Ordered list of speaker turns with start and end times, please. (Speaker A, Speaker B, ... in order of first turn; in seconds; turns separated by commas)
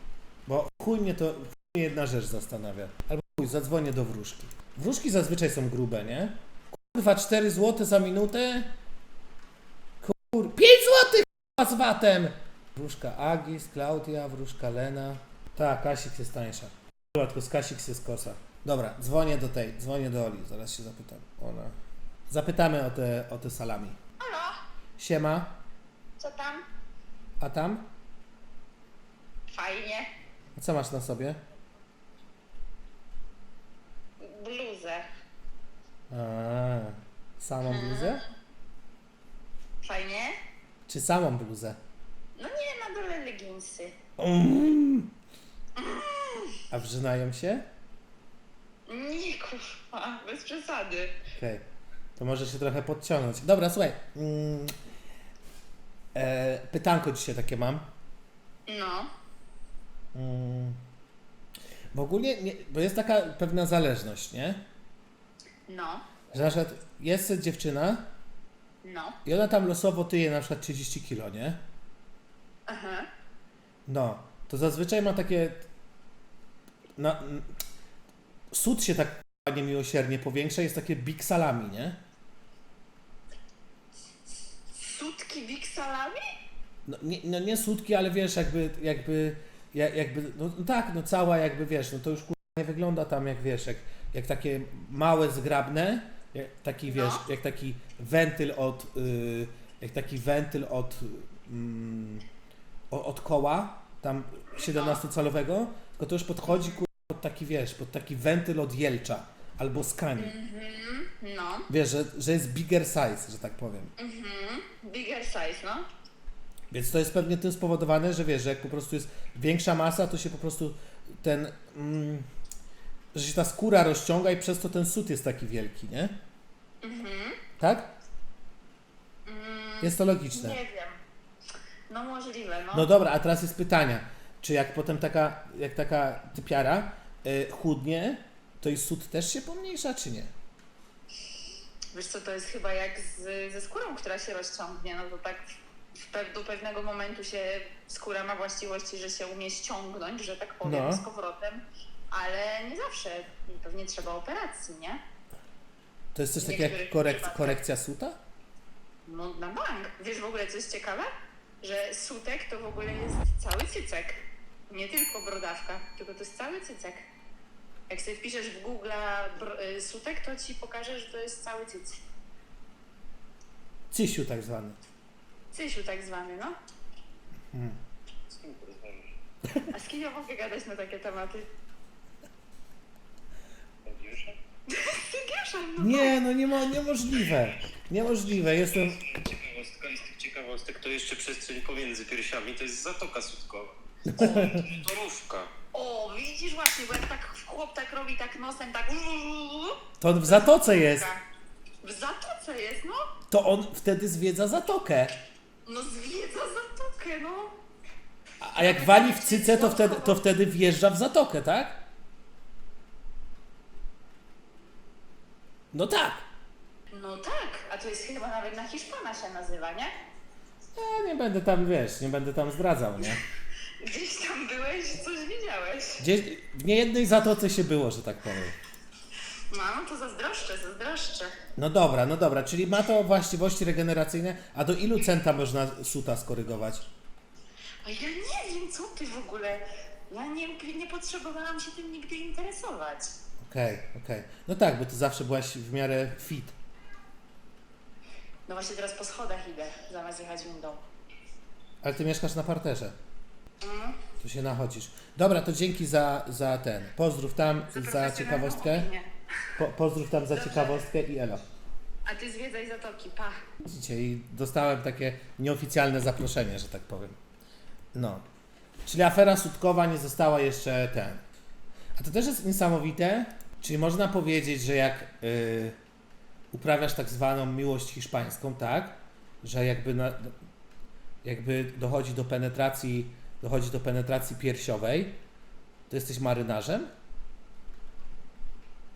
Speaker A: 0.5-8.7, Speaker A: 10.0-21.7, Speaker A: 22.3-24.0, Speaker B: 24.2-24.6, Speaker A: 25.0-25.6, Speaker B: 26.2-26.6, Speaker A: 27.4-27.9, Speaker B: 29.5-30.1, Speaker A: 30.6-31.4, Speaker B: 34.2-35.1, Speaker A: 36.1-38.2, Speaker B: 37.6-38.2, Speaker B: 39.8-40.3, Speaker A: 40.9-41.8, Speaker B: 42.4-43.9, Speaker A: 44.2-45.1, Speaker B: 45.8-46.6, Speaker A: 46.7-47.6, Speaker B: 48.9-51.1, Speaker A: 51.3-51.6, Speaker A: 52.2-54.7, Speaker A: 56.1-57.9, Speaker B: 58.7-59.1, Speaker A: 60.1-60.8, Speaker A: 61.9-64.6, Speaker B: 65.7-66.1, Speaker A: 66.3-68.1, Speaker B: 68.8-69.2, Speaker A: 69.2-71.6, Speaker B: 72.7-73.1, Speaker A: 73.8-75.7, Speaker A: 77.0-77.5, Speaker A: 78.5-82.0, Speaker B: 84.7-86.2, Speaker A: 86.8-102.2, Speaker B: 96.9-97.2, Speaker A: 102.9-110.3, Speaker B: 104.6-105.0, Speaker B: 110.2-111.7, Speaker A: 111.7-113.9, Speaker B: 114.0-115.8, Speaker A: 116.7-122.3, Speaker A: 123.1-126.1, Speaker B: 126.8-127.4, Speaker A: 127.6-127.9, Speaker B: 129.2-131.0, Speaker A: 129.8-130.6, Speaker B: 131.9-132.9, Speaker A: 132.7-140.3, Speaker B: 141.9-145.4, Speaker B: 146.0-155.0, Speaker A: 150.6-151.0, Speaker A: 156.1-158.2, Speaker B: 156.4-157.6, Speaker B: 159.0-161.1, Speaker B: 161.6-164.2, Speaker B: 164.7-167.0, Speaker B: 167.9-172.0, Speaker A: 173.9-174.8, Speaker B: 175.5-176.5, Speaker A: 177.5-177.8, Speaker C: 178.3-179.1, Speaker B: 179.7-181.4, Speaker C: 183.8-184.4, Speaker B: 184.7-186.2, Speaker A: 185.8-189.0, Speaker C: 188.9-195.5, Speaker A: 194.0-194.7, Speaker B: 195.7-201.2, Speaker A: 200.0-201.1, Speaker B: 201.8-203.0, Speaker A: 203.3-205.2, Speaker B: 205.6-207.6, Speaker A: 208.4-211.8, Speaker B: 208.5-210.2, Speaker A: 215.7-216.2, Speaker B: 216.9-219.9, Speaker A: 220.7-223.2, Speaker B: 223.8-226.0, Speaker A: 226.0-228.6, Speaker B: 229.5-231.3, Speaker A: 231.6-236.8, Speaker B: 237.8-243.1, Speaker A: 243.4-246.5, Speaker B: 248.4-250.8, Speaker A: 251.8-252.9, Speaker B: 253.6-254.0, Speaker A: 254.2-258.9, Speaker B: 257.7-259.1, Speaker A: 259.6-261.4, Speaker B: 260.3-260.8, Speaker B: 262.0-263.4, Speaker A: 263.6-267.2, Speaker A: 267.9-268.2, Speaker A: 268.9-271.2, Speaker A: 271.9-275.8, Speaker A: 276.5-280.3, Speaker A: 281.2-285.2, Speaker A: 285.9-286.9